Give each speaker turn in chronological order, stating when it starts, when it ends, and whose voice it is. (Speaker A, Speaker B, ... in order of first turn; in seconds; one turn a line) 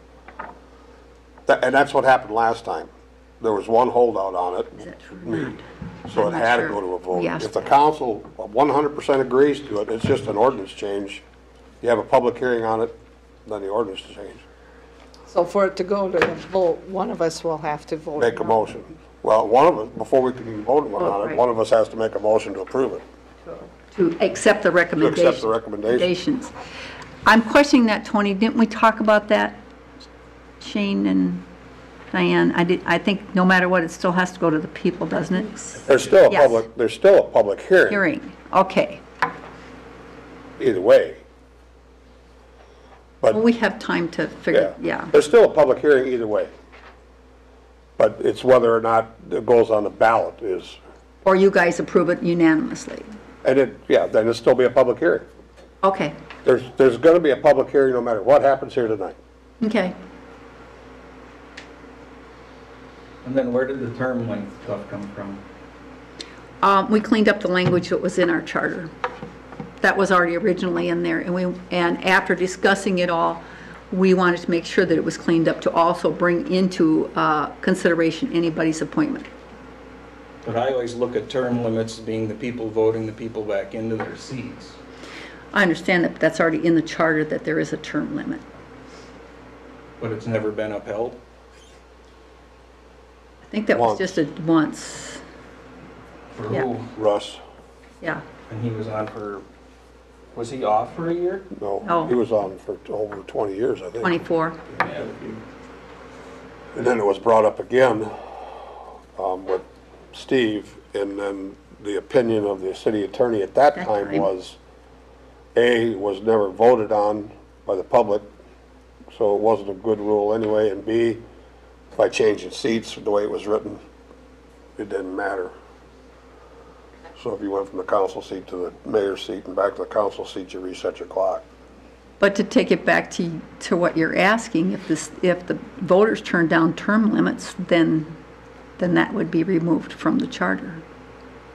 Speaker A: 1.5-2.9
Speaker A: 3.4-5.5
Speaker B: 4.8-7.6
Speaker A: 6.1-11.2
Speaker A: 11.8-12.9
Speaker A: 13.4-14.4
Speaker C: 15.3-18.6
Speaker A: 18.2-23.0
Speaker B: 21.0-21.3
Speaker B: 23.4-26.5
Speaker A: 25.0-26.1
Speaker B: 27.2-29.6
Speaker B: 30.6-31.4
Speaker B: 32.1-36.6
Speaker A: 35.9-38.0
Speaker B: 37.9-39.0
Speaker A: 40.6-41.2
Speaker B: 43.3-45.1
Speaker A: 44.5-46.5
Speaker A: 48.0-50.8
Speaker B: 51.2-53.1
Speaker A: 53.4-55.3
Speaker B: 55.8-56.1
Speaker A: 56.4-59.2
Speaker B: 59.6-60.0
Speaker D: 63.2-65.4
Speaker B: 66.6-68.9
Speaker B: 69.8-79.3
Speaker D: 80.4-84.8
Speaker B: 85.5-88.4
Speaker D: 90.0-91.2
Speaker B: 93.5-95.2
Speaker A: 93.7-94.2
Speaker D: 96.3-96.9
Speaker A: 96.9-97.4
Speaker B: 98.0-98.2
Speaker D: 98.5-99.5
Speaker D: 100.3-101.5
Speaker A: 101.5-104.2
Speaker B: 101.8-102.1
Speaker B: 104.0-104.6
Speaker D: 104.7-105.4
Speaker A: 106.7-108.4
Speaker A: 109.2-114.6
Speaker B: 113.8-114.3
Speaker A: 115.5-118.3
Speaker A: 119.1-121.2
Speaker A: 121.9-123.8
Speaker A: 124.8-125.5
Speaker A: 127.2-131.4
Speaker B: 132.2-138.2
Speaker B: 138.8-140.8